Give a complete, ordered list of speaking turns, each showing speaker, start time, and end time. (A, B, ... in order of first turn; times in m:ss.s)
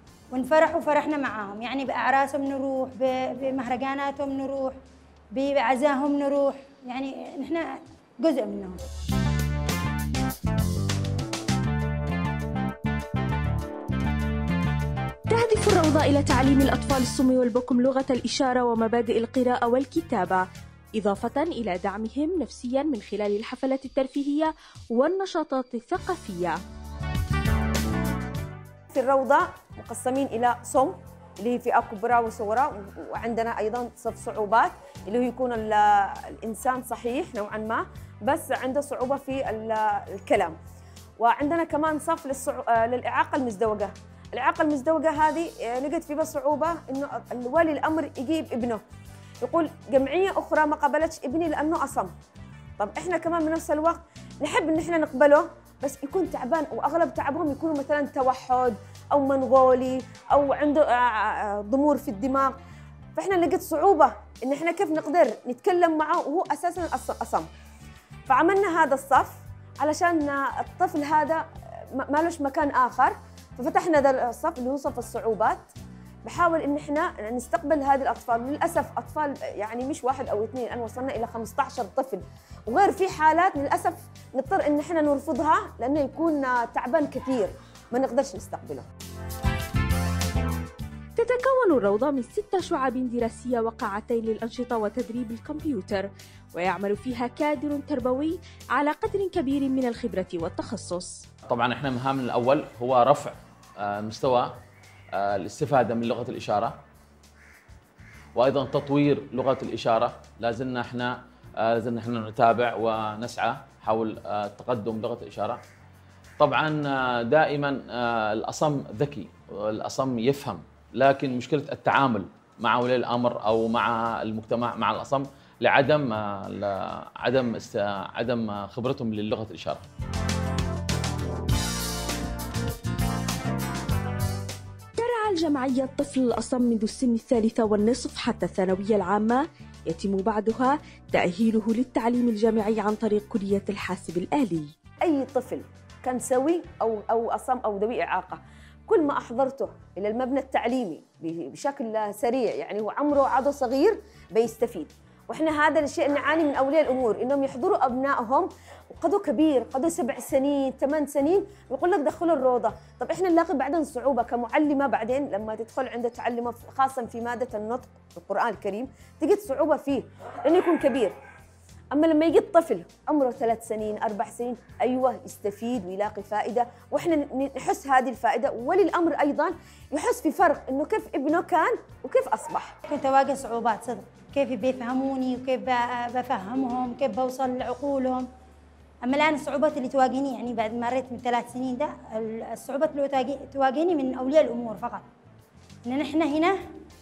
0:00.3-0:04.8 A
0:05.3-0:08.8 A
0:15.3-0:20.4 B
0:21.0-0:26.6 B
0:28.9-0:40.6 C
0:41.2-0:48.8 C
0:49.4-0:52.1 C
0:52.8-1:02.5 C
1:03.2-1:07.5 C
1:08.3-1:11.4 C
1:12.0-1:15.7 C
1:16.2-1:28.9 C
1:31.2-1:41.2 B
1:41.5-1:44.5 D
1:45.1-1:46.8 D
1:48.4-1:55.6 D
1:56.4-2:09.8 D
2:15.0-2:24.7 B
2:25.0-2:51.1 C
2:51.9-3:02.8 C
3:02.9-3:08.3 A
3:09.0-3:15.1 A
3:15.8-3:16.6 A